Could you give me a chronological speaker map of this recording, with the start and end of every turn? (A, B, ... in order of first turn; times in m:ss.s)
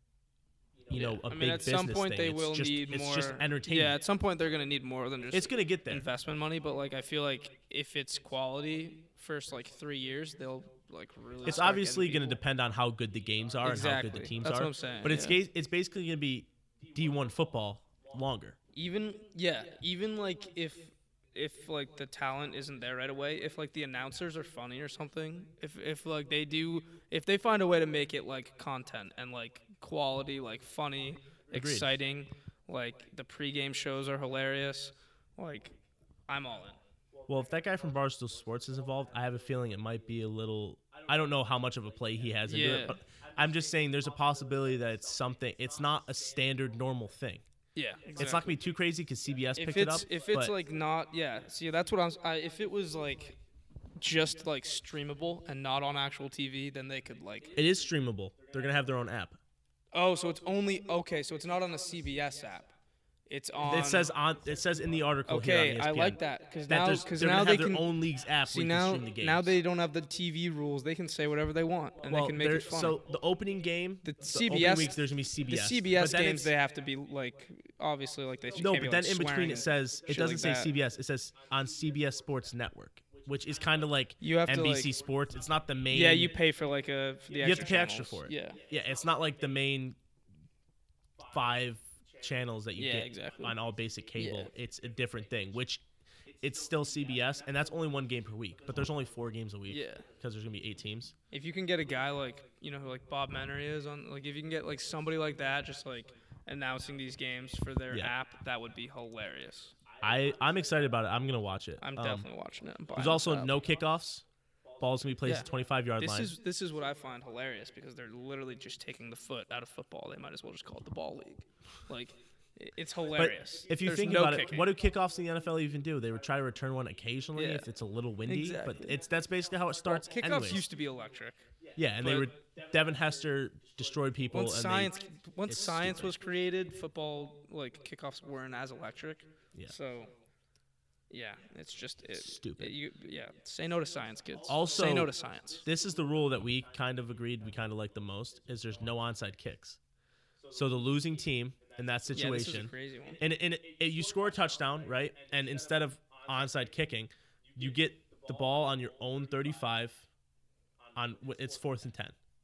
0:00.9-0:04.0 A
0:00.9-0:12.4 B
0:05.3-0:06.1 A
0:11.4-0:18.6 A
0:13.6-0:15.4 B
0:18.7-0:35.8 B
0:31.5-0:32.0 A
0:36.3-0:36.8 B
0:37.3-0:47.4 A
0:42.5-0:43.0 B
0:47.7-0:48.6 B
0:48.2-0:50.5 A
0:49.6-0:53.4 B
0:54.0-0:57.5 B
0:57.5-0:59.4 A
0:59.9-1:02.7 B
1:03.3-1:04.1 B
1:03.6-1:09.5 A
1:05.3-1:07.9 B
1:08.4-1:13.0 B
1:12.0-1:16.5 A
1:14.0-1:20.7 B
1:18.5-1:26.3 A
1:24.2-1:24.9 B
1:25.9-1:28.6 B
1:27.3-1:30.0 A
1:31.3-1:35.8 A
1:32.8-1:33.6 B
1:34.2-1:34.5 B
1:36.4-1:41.1 A
1:39.7-1:40.1 B
1:41.3-1:49.8 B
1:50.0-1:52.3 A
1:51.8-1:53.6 B
1:52.9-1:54.2 A
1:54.8-1:56.3 A
1:55.2-2:04.7 B
2:03.2-2:10.6 A
2:07.3-2:07.7 B
2:08.2-2:09.0 B
2:09.8-2:12.3 B
2:11.7-2:14.9 A
2:14.3-2:20.1 B
2:15.4-2:16.1 A
2:21.1-2:25.6 B
2:22.1-2:22.8 A
2:24.4-2:25.1 A
2:25.6-2:29.8 A
2:30.5-2:40.1 A
2:32.1-2:33.2 B
2:40.9-2:42.2 A